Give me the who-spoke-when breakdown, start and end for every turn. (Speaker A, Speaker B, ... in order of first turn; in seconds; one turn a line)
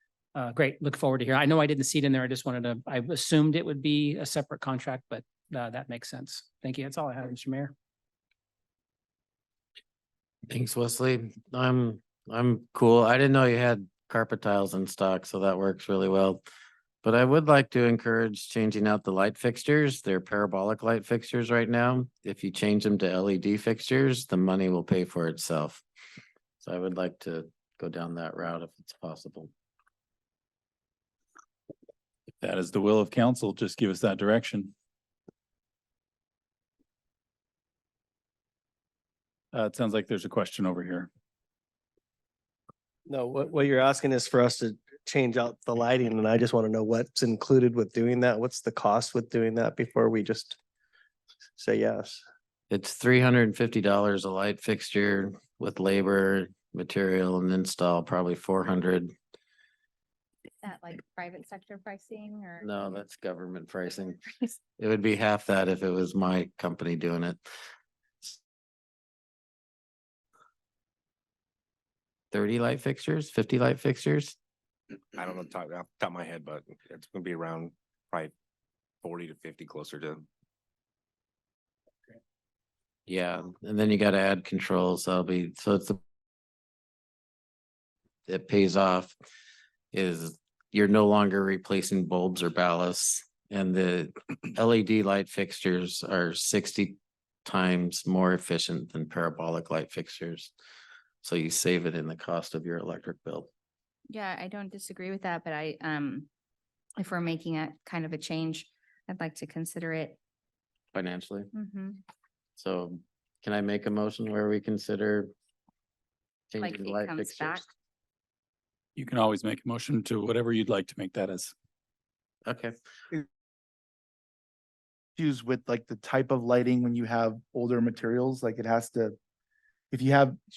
Speaker A: 0.3-7.7
Speaker B: 10.5-16.4
Speaker B: 17.0-25.8
Speaker B: 26.6-29.5
Speaker C: 32.4-34.7
Speaker C: 39.5-41.1
Speaker D: 43.1-50.6
Speaker D: 51.6-52.2
Speaker B: 52.7-59.1
Speaker E: 60.6-62.8
Speaker B: 62.6-64.2
Speaker B: 64.8-67.4
Speaker B: 72.3-74.3
Speaker F: 75.1-78.3
Speaker F: 79.0-80.2
Speaker B: 83.1-86.0
Speaker B: 88.3-89.2
Speaker B: 89.9-100.5
Speaker B: 101.2-103.5
Speaker E: 104.1-106.3
Speaker E: 107.0-110.2
Speaker B: 110.9-111.5
Speaker E: 111.5-112.0
Speaker B: 112.6-115.3
Speaker B: 116.5-117.7
Speaker E: 116.6-117.7
Speaker C: 119.0-121.5
Speaker B: 122.5-122.7
Speaker G: 125.2-129.2
Speaker G: 129.9-130.4